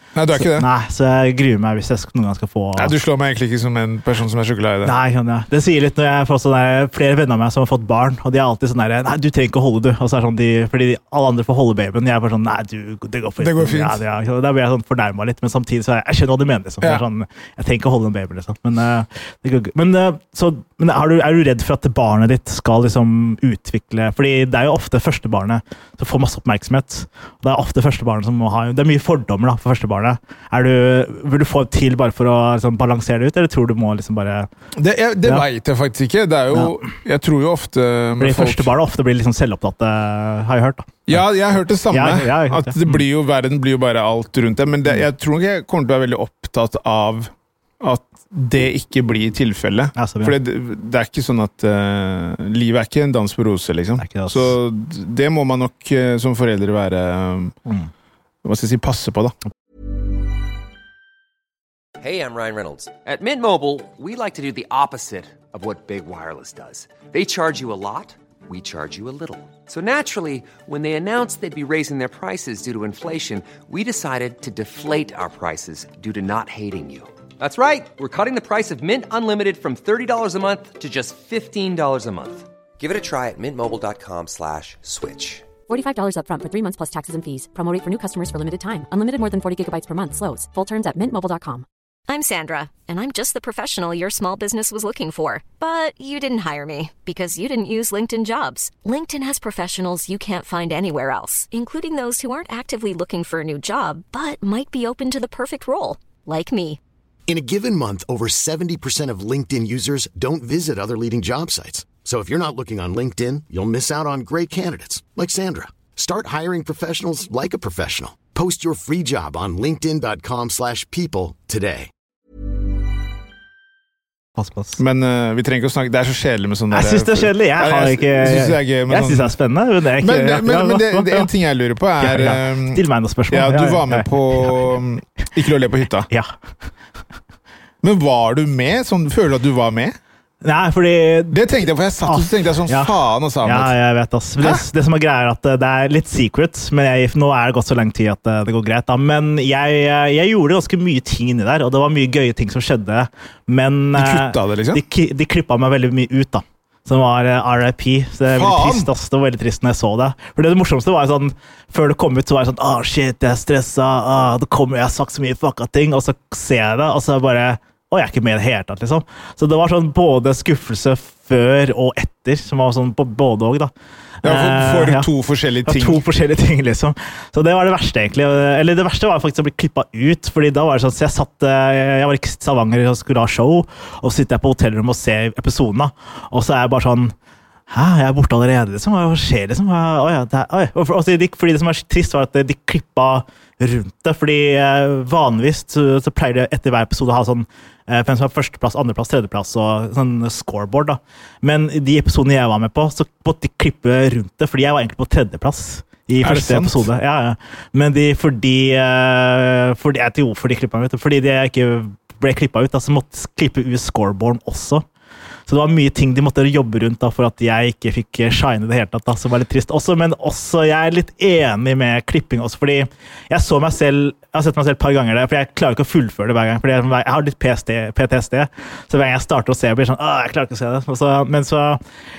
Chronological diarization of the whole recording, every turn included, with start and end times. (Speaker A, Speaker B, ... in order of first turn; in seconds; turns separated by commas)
Speaker A: 0.1-0.7, Speaker B: 0.3-2.9, Speaker A: 2.8-5.0, Speaker B: 4.8-34.5, Speaker A: 13.4-14.0, Speaker A: 34.8-38.7, Speaker B: 38.2-41.2, Speaker A: 41.1-57.5, Speaker B: 41.9-43.0, Speaker B: 50.0-50.4, Speaker B: 54.0-54.5, Speaker A: 58.4-59.3, Speaker C: 62.0-85.4, Speaker D: 85.7-91.6, Speaker E: 92.1-106.8, Speaker F: 107.3-121.9, Speaker B: 124.4-124.8, Speaker A: 124.8-129.3, Speaker B: 126.7-131.3, Speaker A: 130.0-136.1, Speaker B: 132.0-134.6, Speaker A: 137.8-140.0, Speaker B: 140.4-141.4, Speaker A: 141.3-143.7, Speaker B: 142.0-173.7, Speaker A: 153.9-154.8, Speaker A: 158.3-158.9, Speaker B: 174.2-175.1, Speaker A: 174.2-176.0, Speaker B: 175.6-187.1, Speaker B: 187.7-214.8, Speaker A: 206.2-206.9, Speaker B: 215.5-231.8